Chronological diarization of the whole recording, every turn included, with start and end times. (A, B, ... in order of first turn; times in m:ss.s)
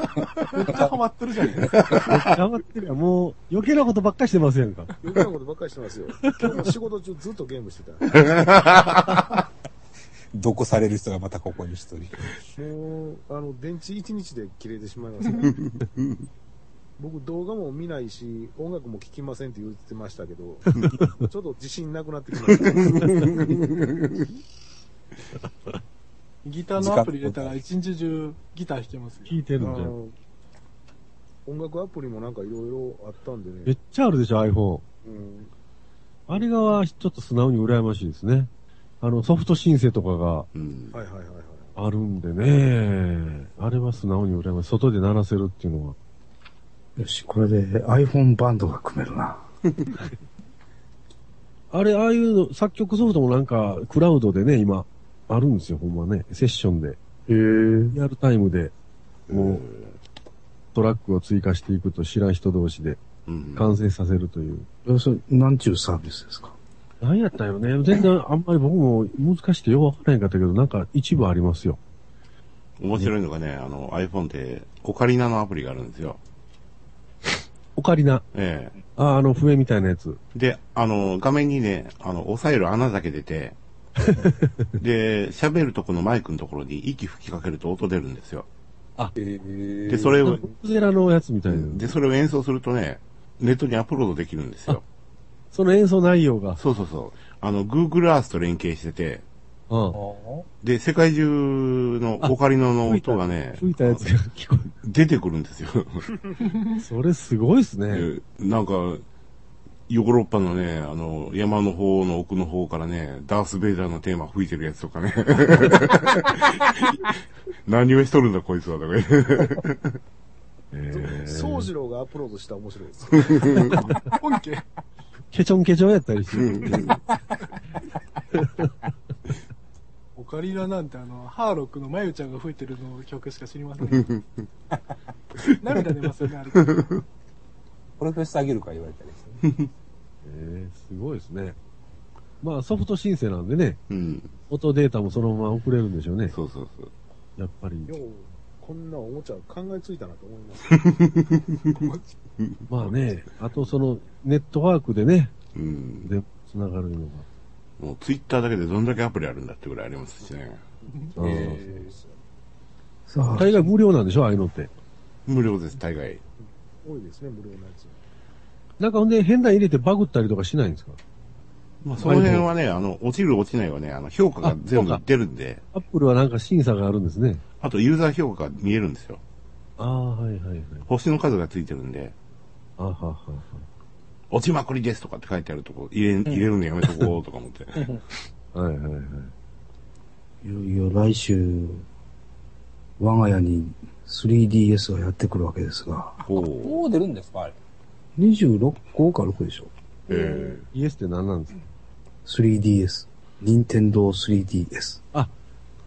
0:00.5-0:01.8 A
0:01.7-0:02.1 B
0:02.0-0:04.9 C
0:05.0-0:08.2 D
0:06.2-0:06.7 C
0:08.2-0:09.2 B
0:10.3-0:12.4 E
0:12.6-0:15.6 D
0:15.4-0:16.1 B
0:17.0-0:23.5 D
0:20.7-0:21.2 C
0:22.9-0:24.2 B
0:26.4-0:29.4 A
0:26.8-0:27.6 E
0:29.3-0:30.0 C
0:29.6-0:30.2 D
0:31.5-0:33.8 D
0:33.7-0:34.8 C
0:35.0-0:35.5 D
0:36.3-0:38.5 C
0:39.0-0:40.5 C
0:40.5-0:41.0 B
0:40.9-0:41.8 D
0:41.8-0:46.0 C
0:47.0-0:49.5 F
0:51.7-0:57.0 C
0:57.3-0:58.0 F
0:57.9-0:58.7 C
0:59.3-0:59.7 C
0:59.3-0:59.9 B
1:00.7-1:03.0 C
1:03.3-1:03.7 B
1:03.6-1:04.7 C
1:04.8-1:06.6 F
1:07.0-1:11.8 C
1:12.8-1:16.2 B
1:17.8-1:18.2 C
1:18.3-1:18.8 B
1:19.0-1:20.2 C
1:20.3-1:23.6 B
1:24.0-1:24.7 C
1:24.8-1:28.5 B
1:29.2-1:30.5 E
1:29.9-1:30.5 B
1:30.2-1:31.9 C
1:31.5-1:34.8 B
1:35.5-1:36.6 C
1:36.6-1:39.2 B
1:39.7-1:40.0 C
1:39.9-1:40.5 E
1:40.6-1:44.1 B
1:42.2-1:44.7 C
1:44.8-1:46.1 B
1:46.8-1:48.1 C
1:47.9-1:49.0 B
1:49.9-2:00.0 B
2:00.7-2:01.7 C
2:00.9-2:03.7 D
2:03.2-2:03.8 B
2:03.6-2:03.9 C
2:04.1-2:04.7 A
2:05.3-2:07.0 C
2:06.4-2:07.0 B
2:08.3-2:08.7 C
2:10.2-2:14.2 A
2:13.9-2:14.2 B
2:15.6-2:17.0 A
2:16.5-2:17.0 B
2:18.0-2:19.5 E
2:20.2-2:21.6 C
2:22.4-2:23.8 C
2:23.9-2:24.3 B
2:24.5-2:26.4 C
2:26.3-2:26.9 B
2:27.4-2:27.9 C
2:27.9-2:30.9 D
2:30.7-2:32.9 B
2:32.7-2:35.3 C
2:35.6-2:36.1 B
2:36.0-2:37.3 C
2:37.8-2:40.6 B
2:40.8-2:42.2 D
2:41.2-2:41.8 C
2:41.2-2:41.6 B
2:43.1-2:43.7 F
2:43.3-2:44.7 C
2:45.3-2:46.2 B
2:46.4-2:48.0 D
2:48.8-2:51.0 C
2:51.8-2:55.6 B
2:52.0-2:52.5 C
2:54.4-2:55.0 C
2:55.7-2:57.4 C
2:57.6-2:59.2 B
2:59.8-3:00.9 C
3:00.9-3:02.1 B
3:02.8-3:03.7 C
3:04.3-3:08.0 B
3:08.5-3:09.3 C
3:10.4-3:11.9 F
3:13.0-3:16.2 F
3:16.3-3:16.8 B
3:16.3-3:17.6 E
3:18.2-3:19.7 F
3:20.1-3:20.7 B
3:20.1-3:20.5 D
3:20.7-3:21.6 C
3:22.2-3:25.0 F